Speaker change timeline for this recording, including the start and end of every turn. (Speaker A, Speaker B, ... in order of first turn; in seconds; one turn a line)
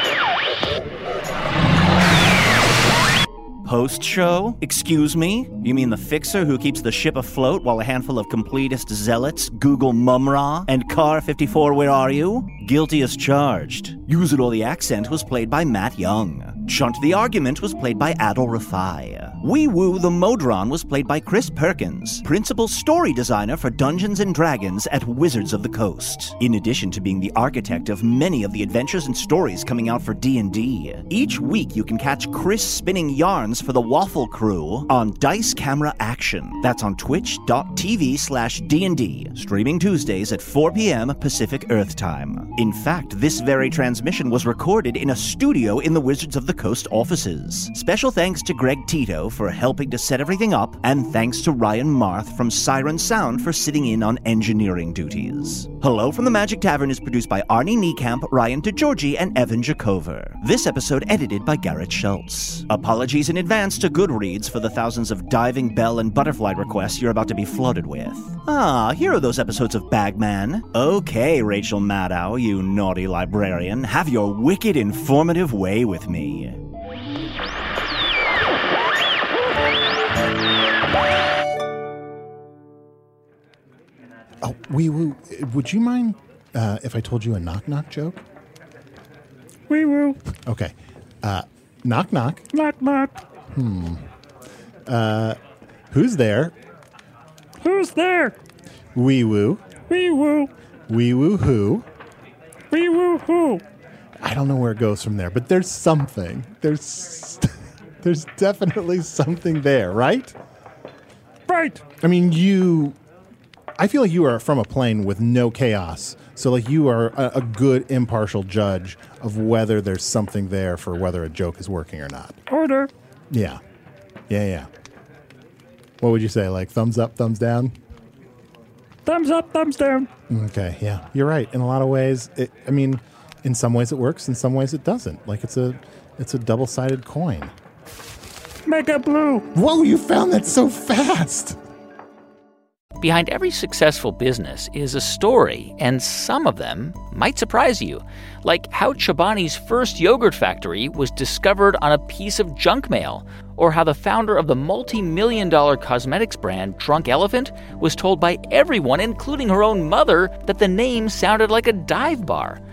Speaker A: 3.6-76.6
Speaker B: 84.4-88.2
Speaker C: 89.7-90.2
Speaker B: 90.5-92.4
Speaker C: 92.5-93.2
Speaker B: 93.5-94.0
Speaker B: 94.9-95.4
Speaker B: 95.9-96.5
Speaker C: 97.6-98.3
Speaker B: 98.9-99.6
Speaker C: 99.9-100.5
Speaker B: 100.9-101.8
Speaker C: 102.7-103.6
Speaker B: 104.2-107.5
Speaker B: 108.0-110.3
Speaker C: 111.5-111.8
Speaker B: 112.0-113.0
Speaker B: 113.8-122.4
Speaker C: 122.5-122.9
Speaker B: 123.3-123.6
Speaker B: 124.3-124.7
Speaker B: 126.0-127.7
Speaker C: 129.1-130.1
Speaker B: 130.3-137.5
Speaker C: 138.7-139.5
Speaker B: 139.5-141.6
Speaker D: 143.0-162.6